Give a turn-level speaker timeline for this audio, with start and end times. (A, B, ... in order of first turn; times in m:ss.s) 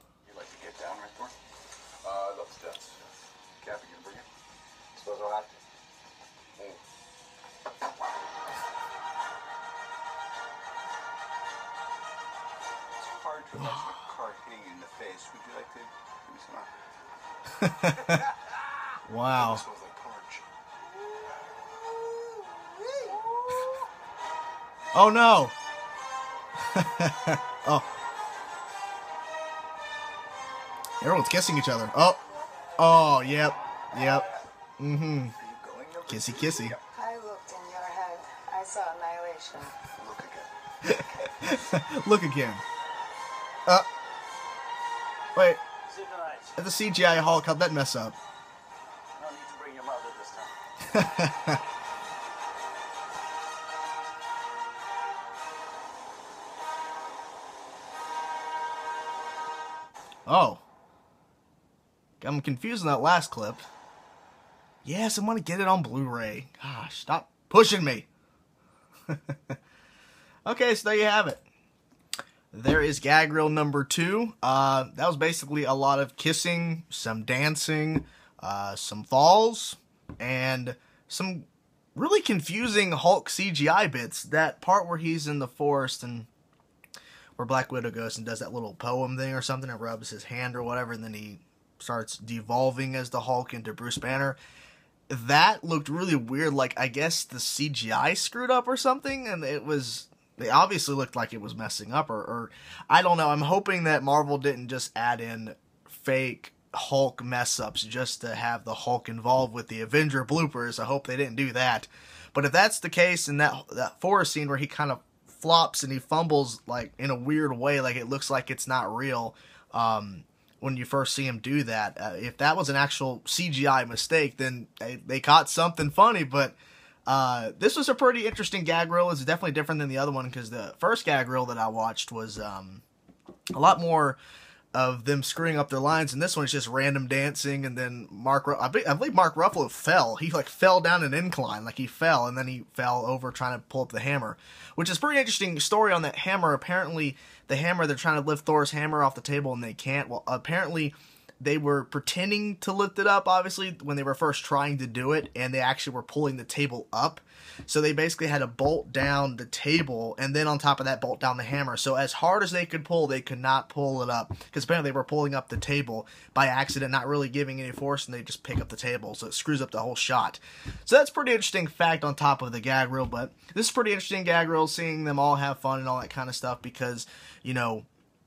0:00.3-0:01.4 A
0:02.0-0:04.3 A
0:05.0-0:05.5 A
0:13.0-0:16.9 A
0:17.6-0:18.3 B
0:19.1-0:19.6 B
0:19.4-0:20.5 A
0:21.7-0:23.8 C
0:24.9-0:25.6 B
0:26.7-0:27.9 B
0:31.0-0:32.2 B
0:32.8-0:34.3 B
0:34.8-0:35.3 B
0:35.3-0:36.8 A
0:36.1-0:36.8 B
0:37.0-0:39.8 C
0:39.9-0:40.5 A
0:40.8-0:42.6 B
0:45.4-0:45.6 B
0:45.9-0:46.5 D
0:46.6-0:48.2 B
0:49.2-0:50.5 D
0:50.8-0:51.6 B
1:00.3-1:00.6 B
1:02.2-1:03.6 B
1:04.8-1:08.1 B
1:09.1-1:09.6 B
1:10.4-1:11.4 B
1:12.5-1:26.3 B
1:27.4-1:34.4 B
1:35.1-2:06.6 B
2:07.1-2:12.8 B
2:13.5-2:14.2 B
2:14.7-2:57.9 B